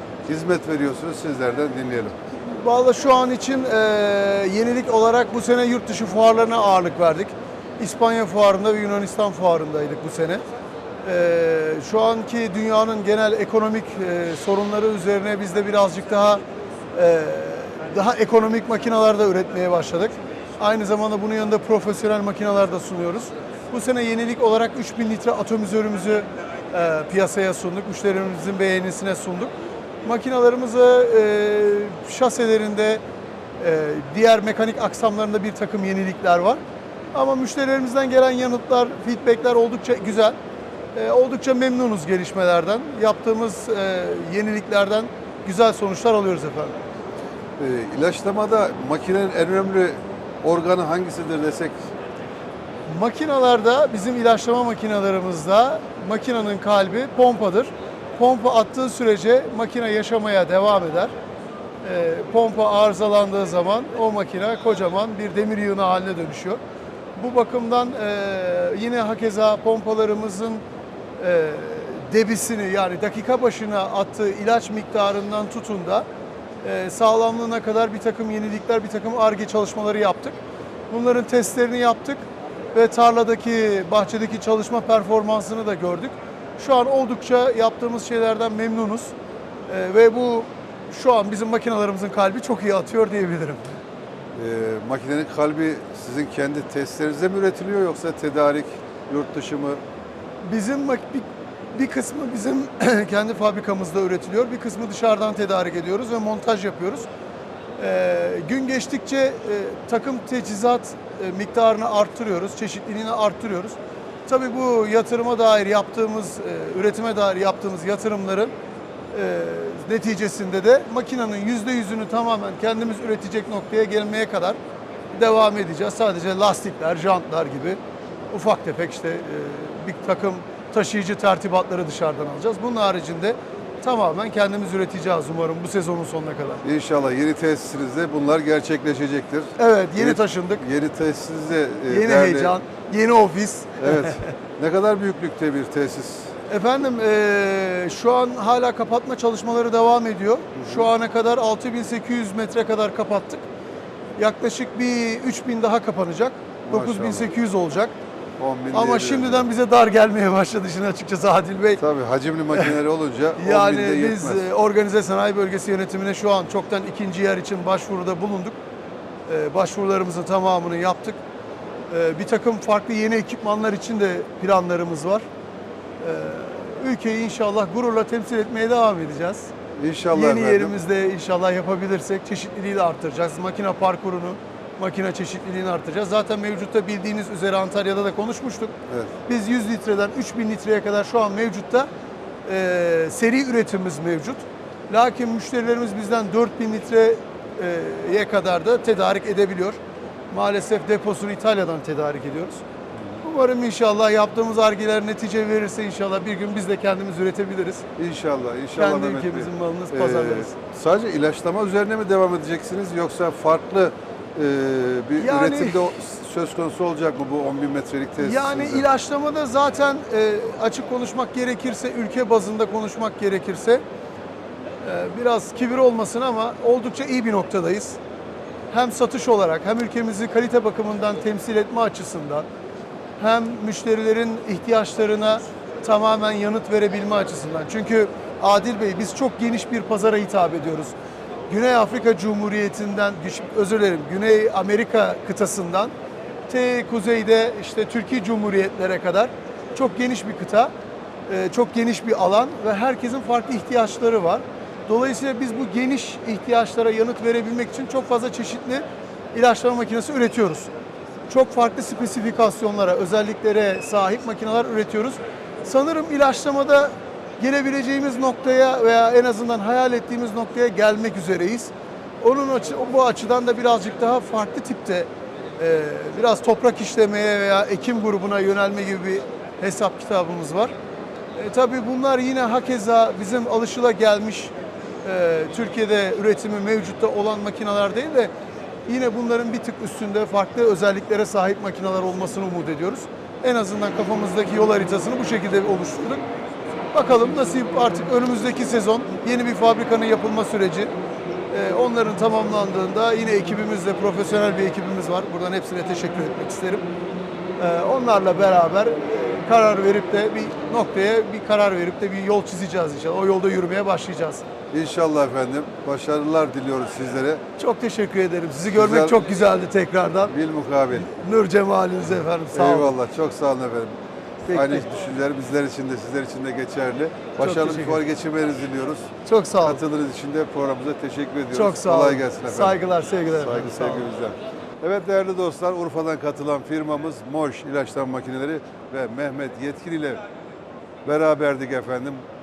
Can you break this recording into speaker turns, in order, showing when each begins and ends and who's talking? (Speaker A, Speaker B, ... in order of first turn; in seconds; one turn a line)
Speaker A: 0.2-2.1
Speaker B: 2.4-10.4
Speaker B: 11.0-16.4
Speaker B: 16.9-29.5
Speaker B: 30.0-33.0
Speaker B: 33.6-36.6
Speaker B: 37.1-40.4
Speaker B: 40.9-46.8
Speaker A: 47.6-51.7
Speaker B: 52.9-61.1
Speaker B: 61.8-66.6
Speaker B: 67.2-70.6
Speaker B: 71.2-76.0
Speaker B: 76.6-80.4
Speaker B: 80.9-89.1
Speaker B: 89.7-93.8
Speaker A: 94.3-99.8
Speaker B: 100.4-107.1
Speaker B: 107.8-113.8
Speaker B: 114.3-118.5
Speaker B: 119.1-124.6
Speaker B: 125.1-127.8
Speaker B: 128.3-136.6
Speaker A: 136.6-142.5
Speaker B: 139.6-140.6
Speaker B: 141.9-144.2
Speaker A: 143.8-146.3
Speaker B: 146.5-153.4
Speaker A: 150.6-150.8
Speaker B: 154.2-157.9
Speaker A: 156.6-157.3
Speaker A: 158.4-159.4
Speaker B: 158.7-161.8
Speaker A: 161.8-164.5
Speaker B: 163.4-168.6
Speaker B: 169.3-171.2
Speaker B: 171.9-175.2
Speaker B: 176.0-179.5
Speaker A: 179.8-180.7
Speaker B: 180.1-188.7
Speaker B: 189.2-191.9
Speaker B: 192.5-199.8
Speaker B: 200.3-202.6
Speaker B: 203.2-207.8
Speaker A: 208.0-218.8
Speaker B: 208.8-210.5
Speaker B: 215.2-215.9
Speaker B: 218.2-223.8
Speaker B: 224.8-228.0
Speaker B: 228.7-232.5
Speaker B: 233.2-240.9
Speaker B: 241.5-245.9
Speaker B: 246.5-250.7
Speaker B: 251.3-260.7
Speaker B: 261.3-280.7
Speaker B: 281.4-284.5
Speaker B: 285.0-288.3
Speaker B: 288.9-296.2
Speaker B: 296.9-300.9
Speaker B: 301.5-306.8
Speaker B: 307.6-314.4
Speaker A: 314.7-317.4
Speaker B: 317.6-320.3
Speaker A: 318.7-319.2
Speaker A: 320.3-321.0
Speaker B: 320.9-322.9
Speaker A: 322.5-323.9
Speaker B: 324.5-324.9
Speaker A: 324.5-329.1
Speaker B: 327.4-328.0
Speaker B: 329.2-329.8
Speaker A: 329.6-332.8
Speaker B: 331.5-334.0
Speaker A: 333.4-340.2
Speaker A: 341.0-342.2